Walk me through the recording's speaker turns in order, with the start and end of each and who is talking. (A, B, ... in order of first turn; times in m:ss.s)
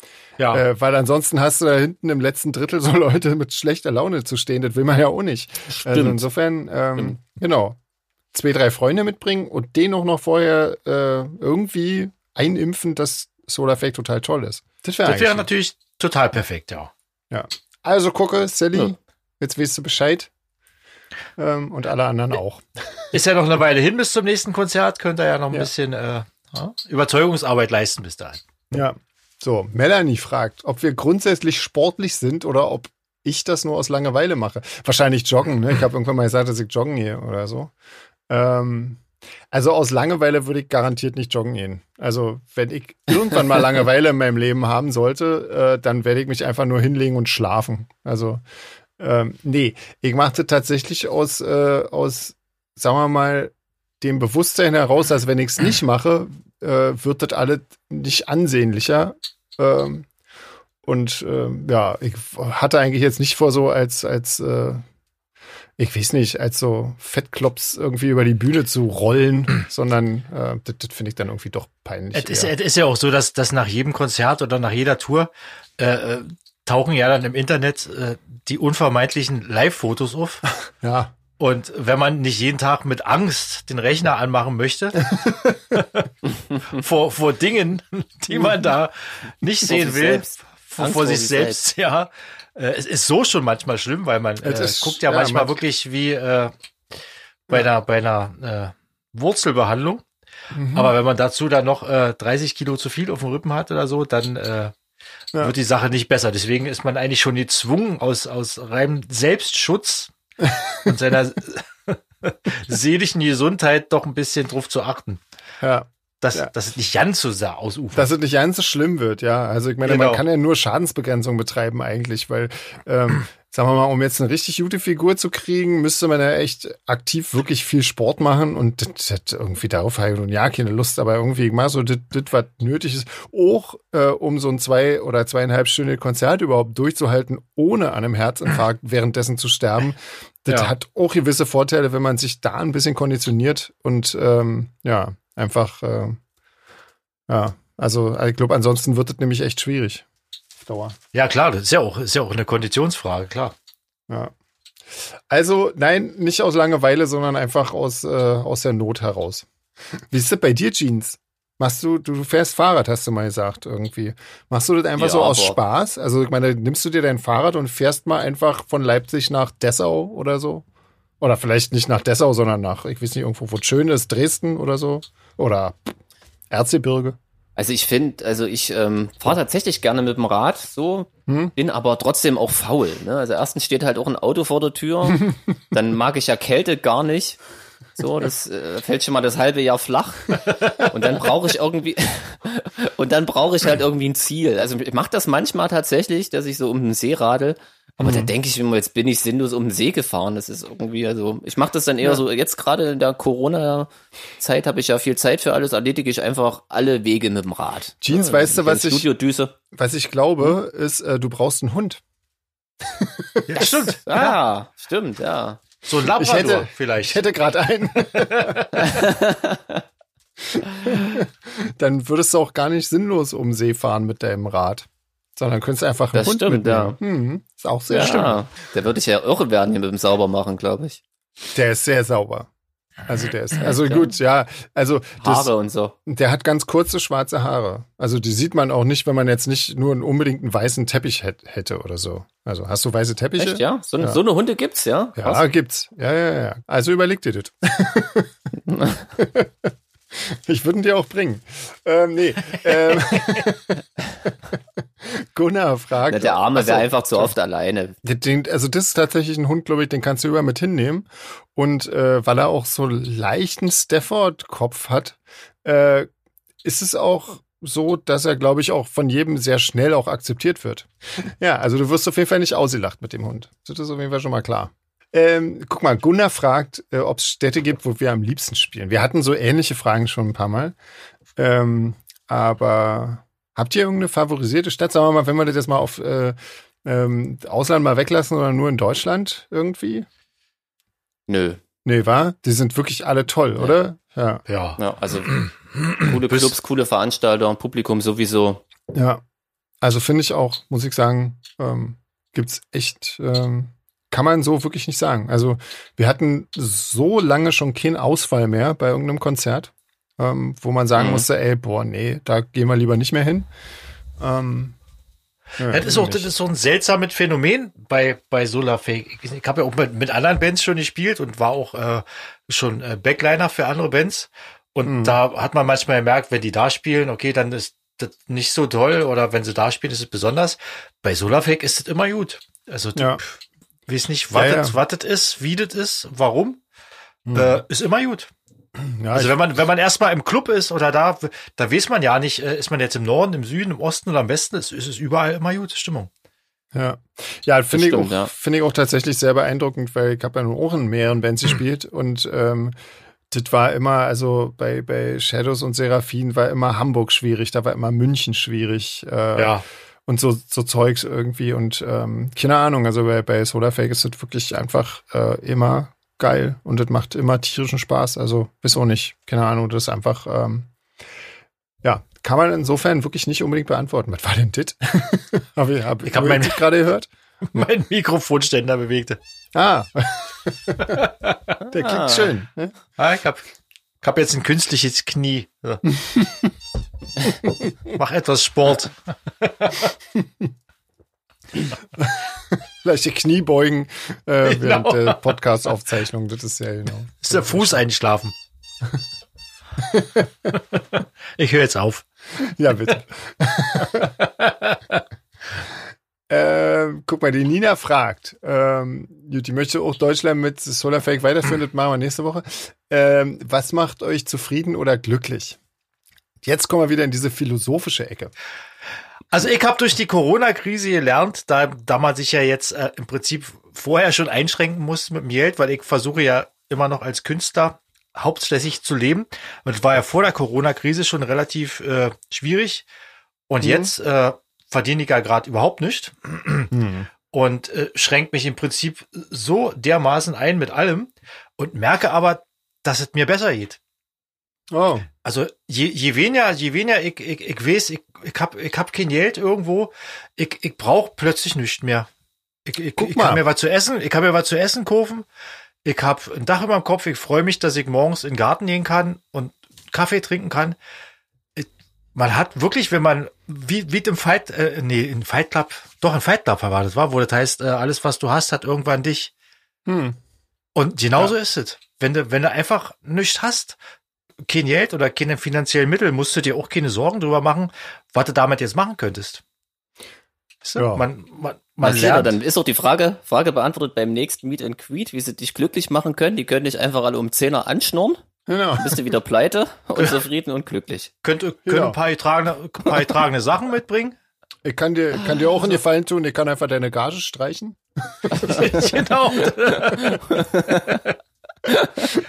0:00.4-0:00.6 A
0:00.5-0:07.8 B
0:05.7-0:06.2 C
0:08.3-0:15.5 B
0:15.0-0:16.9 A
0:17.3-0:20.3 B
0:21.4-0:23.1 B
0:23.1-0:28.4 A
0:28.7-0:37.7 B
0:38.3-0:48.4 B
0:49.0-1:00.1 B
1:00.8-1:04.8 B
1:05.8-1:12.5 B
1:12.1-1:20.6 A
1:20.8-1:21.2 B
1:21.4-1:25.1 A
1:25.1-1:25.8 B
1:25.7-1:36.5 A
1:29.7-1:31.6 C
1:34.4-1:35.5 B
1:37.5-1:40.0 A
1:40.5-1:41.0 B
1:40.7-1:44.7 A
1:45.4-1:50.1 A
1:50.4-1:50.9 B
1:50.8-1:55.2 A
1:55.6-1:56.5 B
1:56.2-1:58.1 A
1:57.9-2:26.2 B
1:59.8-2:00.2 A
2:27.3-2:30.0 B
2:30.6-2:31.0 B
2:31.1-2:33.5 A
2:34.9-2:39.5 B
2:40.1-2:50.6 B
2:45.0-2:45.6 C
2:51.2-2:56.0 B
2:56.5-2:57.2 B
2:57.6-3:07.4 C
3:08.0-3:23.9 C
3:18.0-3:18.3 B
3:24.4-3:29.6 C
3:28.0-3:29.1 B
3:29.7-3:32.0 B
3:32.8-3:33.9 B
3:33.5-3:34.4 A
3:34.1-3:35.6 C
3:35.8-3:37.2 A
3:36.1-3:38.6 B
3:38.1-3:38.8 A
3:38.8-3:39.8 C
3:40.5-3:48.4 B
3:46.1-3:47.0 C
3:47.9-3:51.0 C
3:51.5-3:52.5 B
3:53.1-3:55.5 B
3:55.2-3:56.0 C
3:56.1-4:04.2 B
4:03.4-4:05.4 C
4:05.2-4:08.3 B
4:09.2-4:14.3 B
4:15.0-4:17.3 B
4:16.1-4:18.0 C
4:18.0-4:26.1 B
4:26.6-4:40.8 B
4:41.4-4:50.1 B
4:51.3-4:51.6 C
4:51.8-4:54.4 B
4:54.5-4:56.5 A
4:54.8-4:55.4 C
4:56.0-4:58.6 C
4:58.9-4:59.2 B
4:59.8-5:13.5 B
5:11.0-5:11.3 C
5:14.2-5:14.8 B
5:15.6-5:16.3 B
5:15.7-5:36.6 A
5:24.9-5:25.2 B
5:34.3-5:34.8 B
5:37.3-5:37.6 B
5:37.3-5:38.3 A
5:38.8-5:39.4 B
5:39.1-5:46.1 A
5:46.7-5:52.8 B
5:47.7-5:48.3 C
5:53.3-6:10.7 B
5:59.4-5:59.6 A
6:11.8-6:17.1 B
6:16.0-6:16.7 A
6:17.5-6:19.2 A
6:19.6-6:21.0 B
6:20.9-6:21.4 A
6:21.7-6:22.8 B
6:21.7-6:22.3 C
6:23.0-6:23.4 A
6:24.0-6:25.8 A
6:25.9-6:26.5 B
6:27.9-6:29.9 A
6:32.0-6:37.8 B
6:34.5-6:35.2 A
6:37.2-6:38.4 A
6:39.8-6:40.3 B
6:41.4-6:42.1 A
6:42.4-6:44.1 B
6:44.2-6:45.0 A
6:46.3-6:55.6 B
6:56.4-6:58.3 B
6:59.3-7:12.8 A
7:13.5-7:16.7 A
7:13.6-7:13.9 B
7:16.7-7:17.1 B
7:17.3-7:23.8 A
7:24.7-7:25.1 B
7:25.2-7:32.1 A
7:32.7-7:35.2 A
7:33.0-7:33.4 B
7:35.8-7:40.8 A
7:41.6-7:49.3 A
7:49.9-7:50.2 B
7:50.8-7:53.8 A
7:54.5-7:59.4 A
8:00.6-8:02.4 A
8:00.8-8:01.1 B
8:01.8-8:08.2 C
8:08.5-8:09.0 B
8:08.8-8:11.1 C
8:11.2-8:14.2 A
8:11.7-8:12.0 B
8:14.6-8:18.8 B
8:18.4-8:21.2 A
8:20.3-8:20.8 C
8:21.7-8:22.1 C